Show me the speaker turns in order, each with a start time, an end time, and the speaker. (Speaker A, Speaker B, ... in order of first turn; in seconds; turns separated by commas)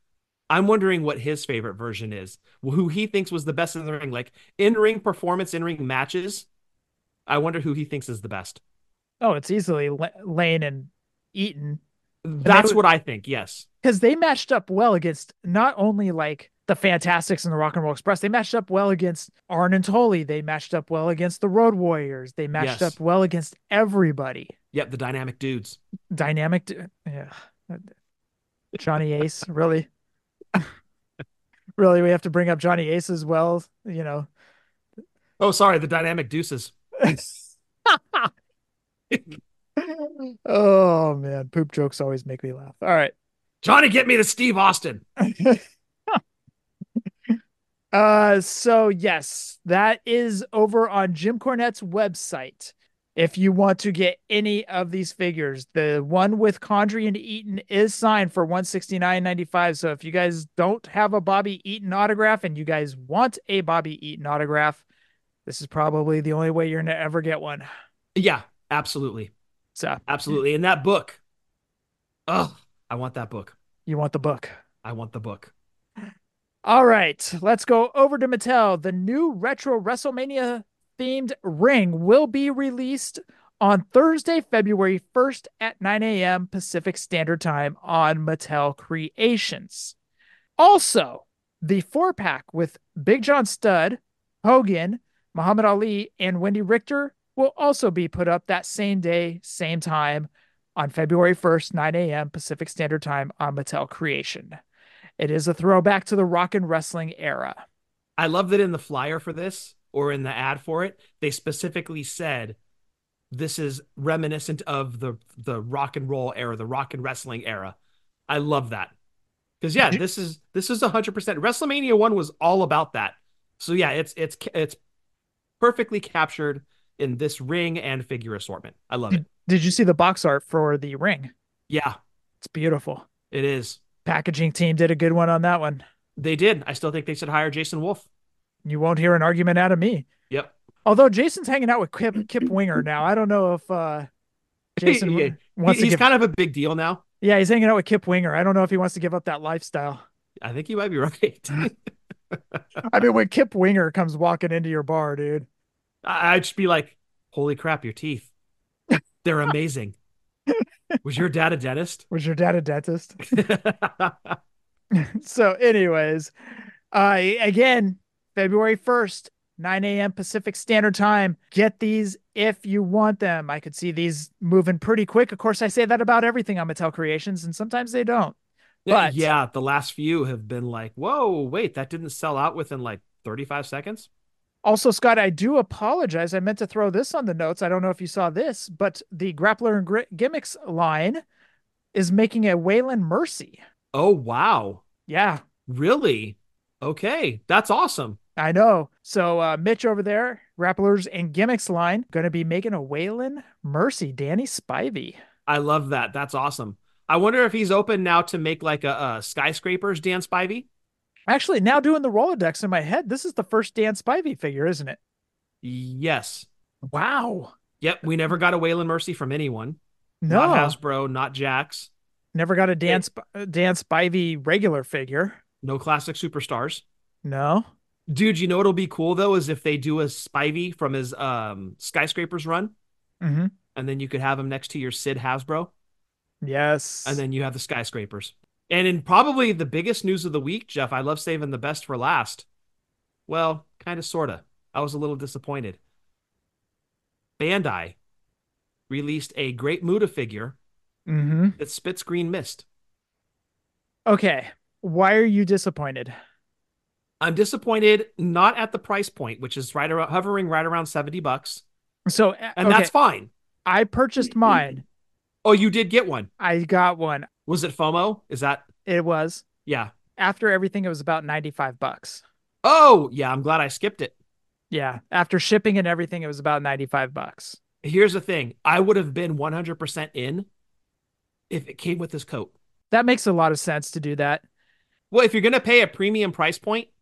Speaker A: 0.5-6.5, Speaker A: 7.3-8.6, Speaker B: 9.2-11.8, Speaker A: 12.2-13.6, Speaker B: 12.4-12.8, Speaker B: 13.8-24.5, Speaker A: 22.5-23.0, Speaker A: 24.7-25.8, Speaker B: 26.1-27.9, Speaker B: 28.8-29.9, Speaker B: 31.8-34.3, Speaker A: 35.4-36.7, Speaker B: 37.0-38.3, Speaker A: 39.1-39.4, Speaker B: 39.8-43.1, Speaker A: 43.6-45.0, Speaker B: 45.2-46.2, Speaker B: 47.9-64.8, Speaker B: 65.5-67.7, Speaker A: 68.1-69.3, Speaker B: 69.7-70.0, Speaker A: 70.1-71.2, Speaker A: 72.3-73.5, Speaker B: 73.9-74.5, Speaker A: 74.8-75.5, Speaker B: 76.6-89.9, Speaker B: 90.6-104.6, Speaker B: 105.2-107.6, Speaker A: 108.2-112.6, Speaker A: 113.3-117.8, Speaker A: 118.3-118.9, Speaker A: 119.6-124.8, Speaker A: 125.6-129.2, Speaker B: 129.1-131.3, Speaker A: 131.7-132.0, Speaker B: 132.4-133.1, Speaker A: 133.3-133.8, Speaker B: 134.0-135.8, Speaker A: 136.2-138.1, Speaker B: 138.6-140.1, Speaker B: 140.8-144.1, Speaker A: 144.8-147.0, Speaker B: 144.8-146.1, Speaker B: 147.2-150.0, Speaker A: 150.4-151.7, Speaker A: 152.3-152.6, Speaker B: 152.8-155.5, Speaker A: 156.0-158.3, Speaker A: 159.2-159.9, Speaker A: 161.0-162.0, Speaker B: 162.1-163.2, Speaker A: 163.3-164.3, Speaker B: 164.9-166.3, Speaker B: 166.9-178.3, Speaker A: 178.8-184.1, Speaker B: 178.9-179.3, Speaker B: 184.6-191.2, Speaker B: 191.9-193.6, Speaker A: 193.9-194.8, Speaker B: 195.1-195.4, Speaker A: 195.7-198.2, Speaker B: 198.4-205.2, Speaker A: 205.5-210.7, Speaker B: 211.3-215.0, Speaker A: 215.6-216.4, Speaker B: 216.9-217.5, Speaker A: 217.8-219.8, Speaker B: 220.2-220.8, Speaker A: 220.3-221.9, Speaker B: 222.3-225.4, Speaker A: 225.6-226.8, Speaker B: 227.2-227.7, Speaker A: 228.1-232.7, Speaker B: 233.2-233.5, Speaker A: 233.7-235.7, Speaker B: 236.4-237.2, Speaker A: 237.0-242.4, Speaker A: 243.3-245.8, Speaker A: 247.4-247.9, Speaker A: 248.9-250.6, Speaker B: 251.1-251.6, Speaker A: 251.6-252.6, Speaker B: 254.1-256.1, Speaker A: 257.2-261.6, Speaker B: 262.1-262.9, Speaker A: 262.6-263.3, Speaker B: 263.6-264.8, Speaker A: 265.4-266.3, Speaker B: 266.4-267.3, Speaker A: 267.5-268.6, Speaker B: 268.9-269.4, Speaker A: 269.6-269.9, Speaker B: 270.1-272.2, Speaker A: 272.6-274.1, Speaker B: 274.7-277.6, Speaker A: 277.8-280.5, Speaker A: 281.5-282.5, Speaker B: 282.9-284.4, Speaker A: 285.1-286.9